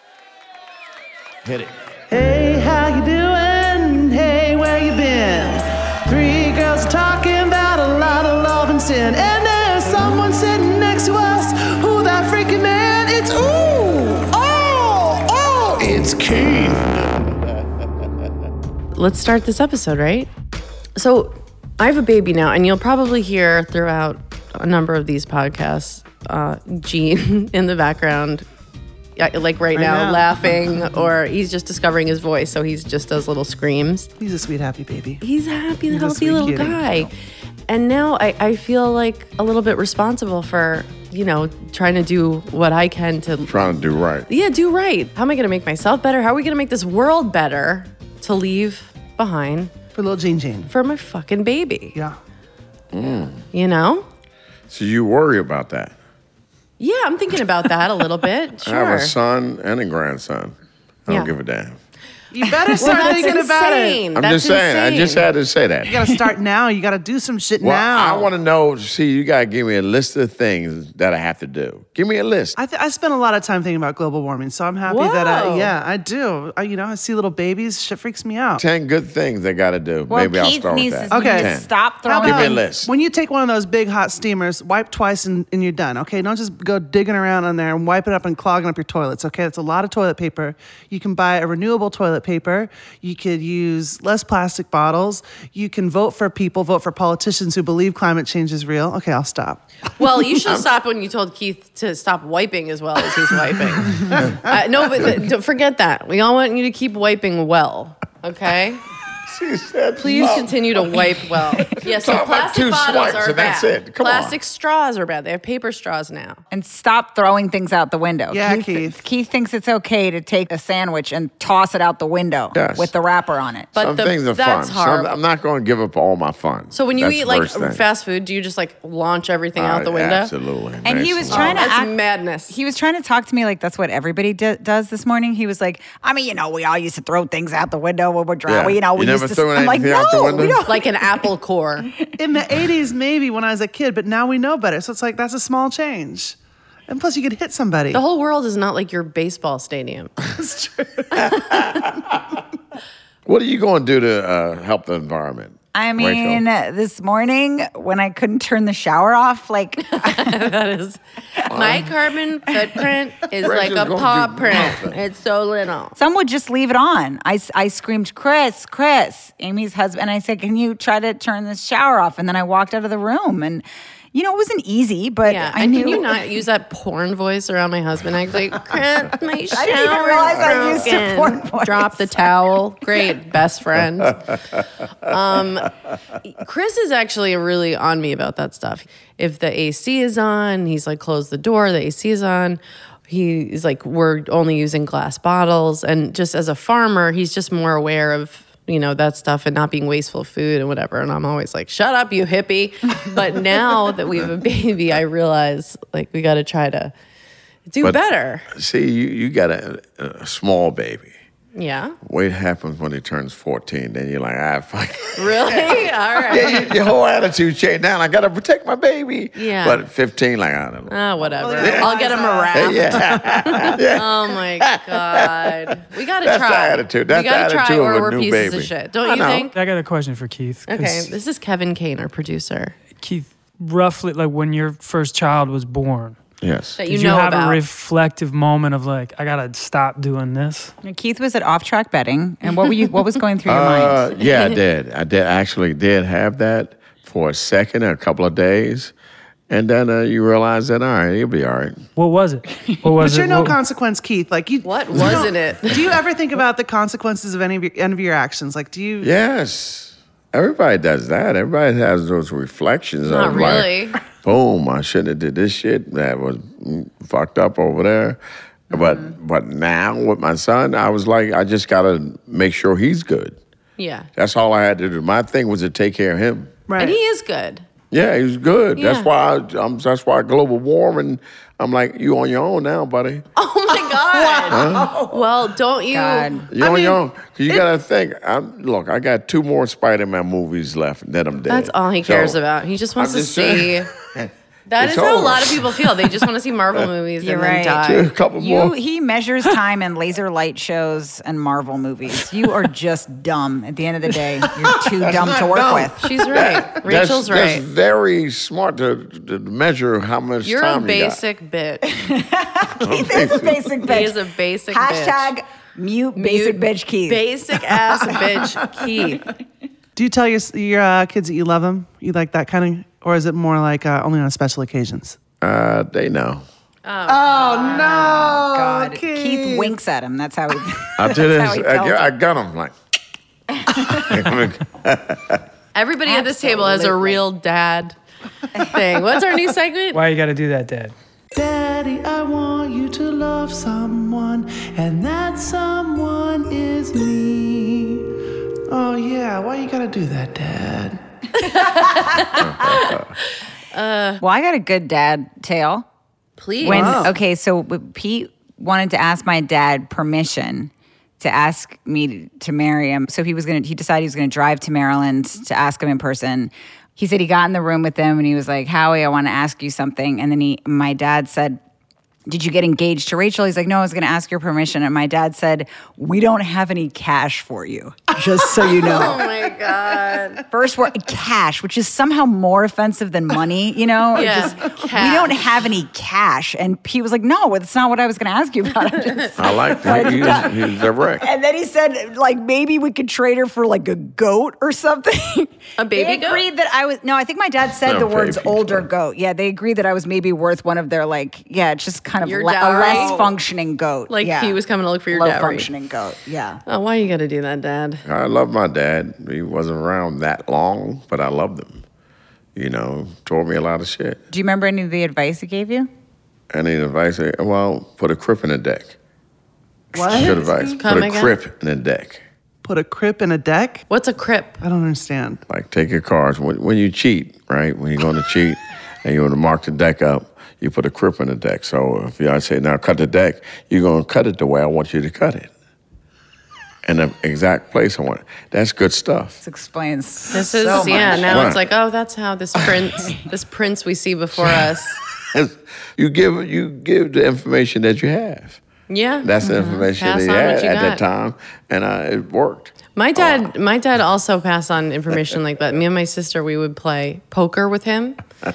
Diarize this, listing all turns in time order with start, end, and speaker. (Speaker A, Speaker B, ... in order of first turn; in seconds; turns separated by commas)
Speaker A: 2.1-16.8, Speaker B: 18.9-20.3, Speaker B: 21.0-28.5, Speaker B: 29.2-34.1, Speaker A: 29.8-30.9, Speaker A: 34.2-35.2, Speaker B: 35.2-37.1, Speaker A: 35.9-37.1, Speaker B: 37.7-49.7, Speaker C: 43.5-44.3, Speaker A: 49.9-50.7, Speaker B: 50.7-52.0, Speaker C: 52.9-53.4, Speaker B: 53.5-54.1, Speaker C: 54.7-55.9, Speaker B: 56.8-59.1, Speaker C: 58.7-60.5, Speaker C: 61.1-61.8, Speaker B: 61.1-61.3, Speaker A: 62.3-64.0, Speaker B: 62.7-65.3, Speaker C: 64.2-66.0, Speaker A: 65.9-68.3, Speaker C: 67.6-72.6, Speaker A: 72.6-78.6, Speaker B: 74.9-75.7, Speaker C: 78.6-81.7, Speaker D: 80.1-82.6, Speaker A: 81.1-81.5, Speaker A: 82.0-99.7, Speaker C: 82.2-82.9, Speaker B: 100.0-108.8, Speaker C: 109.3-111.0, Speaker B: 110.0-116.4, Speaker C: 111.6-114.3, Speaker D: 116.5-123.7, Speaker A: 118.3-119.0, Speaker C: 122.5-122.9, Speaker B: 123.8-125.2, Speaker C: 123.8-127.8, Speaker B: 126.7-130.3, Speaker C: 129.6-131.7, Speaker D: 130.8-132.0, Speaker B: 131.3-132.6, Speaker D: 132.5-141.3, Speaker C: 138.5-140.6, Speaker B: 140.7-141.9, Speaker A: 142.2-146.4, Speaker A: 146.9-148.0, Speaker B: 147.9-150.1, Speaker A: 150.3-151.8, Speaker C: 153.3-156.4, Speaker D: 155.7-160.4, Speaker B: 159.8-166.0, Speaker C: 161.5-161.9, Speaker C: 163.4-165.0, Speaker D: 166.0-176.2, Speaker B: 175.3-184.4, Speaker D: 179.6-182.3, Speaker B: 185.0-185.7, Speaker B: 186.2-206.9, Speaker B: 207.7-208.5, Speaker C: 207.8-211.1, Speaker B: 211.6-212.0, Speaker C: 212.1-221.0, Speaker B: 215.2-216.7, Speaker B: 219.3-219.8, Speaker B: 220.9-229.5, Speaker A: 221.4-223.0, Speaker C: 221.6-221.9, Speaker C: 222.5-225.3, Speaker C: 226.2-229.5, Speaker E: 229.5-231.1, Speaker B: 230.7-232.8, Speaker E: 233.0-236.2, Speaker C: 236.4-236.8, Speaker B: 236.8-237.6, Speaker E: 236.9-240.7, Speaker D: 240.8-244.2, Speaker C: 243.5-248.9, Speaker C: 249.5-251.8, Speaker E: 252.0-253.6, Speaker A: 253.0-259.1, Speaker B: 254.6-255.8, Speaker C: 259.0-268.2, Speaker B: 263.1-264.0, Speaker C: 268.7-273.4, Speaker D: 268.7-269.1, Speaker B: 273.8-274.1, Speaker C: 274.2-276.6, Speaker A: 276.7-277.0, Speaker B: 276.8-277.6, Speaker C: 277.9-283.2, Speaker B: 278.8-279.1, Speaker B: 283.4-286.3, Speaker A: 283.8-285.2, Speaker C: 284.5-285.0, Speaker D: 285.9-286.5, Speaker C: 286.5-292.4, Speaker A: 286.6-287.7, Speaker B: 291.5-293.9, Speaker C: 293.0-296.1, Speaker B: 294.7-298.1, Speaker D: 297.2-297.8, Speaker C: 297.8-298.8, Speaker D: 298.4-306.4, Speaker C: 305.0-311.2, Speaker B: 306.0-307.7, Speaker B: 310.4-311.9, Speaker D: 311.9-314.2, Speaker C: 312.8-313.8, Speaker B: 313.8-315.4, Speaker D: 314.7-317.2, Speaker B: 316.1-319.3, Speaker A: 320.0-325.2, Speaker C: 325.4-326.4, Speaker B: 326.9-328.1, Speaker A: 327.1-329.8, Speaker D: 327.6-332.1, Speaker C: 331.0-332.7, Speaker C: 333.8-335.4, Speaker B: 335.8-337.9, Speaker D: 336.1-337.2, Speaker B: 338.6-340.0, Speaker E: 339.9-340.9, Speaker A: 341.3-348.1, Speaker A: 348.7-352.2, Speaker B: 351.4-353.0, Speaker C: 352.4-353.1, Speaker B: 353.7-354.2, Speaker D: 354.2-355.9, Speaker B: 356.4-357.1, Speaker D: 356.6-371.6, Speaker A: 356.6-357.2, Speaker D: 372.3-379.3, Speaker A: 378.4-379.0, Speaker B: 378.7-380.4, Speaker D: 380.5-404.6, Speaker B: 384.1-385.5, Speaker C: 389.4-391.3, Speaker B: 395.8-396.4, Speaker C: 397.8-398.9, Speaker B: 402.2-403.2, Speaker A: 402.7-403.2, Speaker B: 404.1-405.7, Speaker D: 405.1-406.6, Speaker B: 406.7-408.0, Speaker C: 408.1-411.8, Speaker C: 412.6-414.2, Speaker D: 414.3-415.9, Speaker C: 416.5-419.0, Speaker A: 419.9-420.9, Speaker C: 419.9-422.2, Speaker B: 420.8-421.3, Speaker A: 422.6-423.9, Speaker B: 423.9-424.6, Speaker A: 424.6-425.4, Speaker C: 425.5-435.5, Speaker C: 436.9-439.4, Speaker D: 439.4-441.5, Speaker B: 440.3-445.0, Speaker A: 440.4-441.5, Speaker C: 441.3-441.6, Speaker C: 445.3-448.6, Speaker B: 448.9-449.3, Speaker C: 449.2-453.5, Speaker D: 449.4-449.8, Speaker B: 449.9-451.0, Speaker B: 453.0-458.2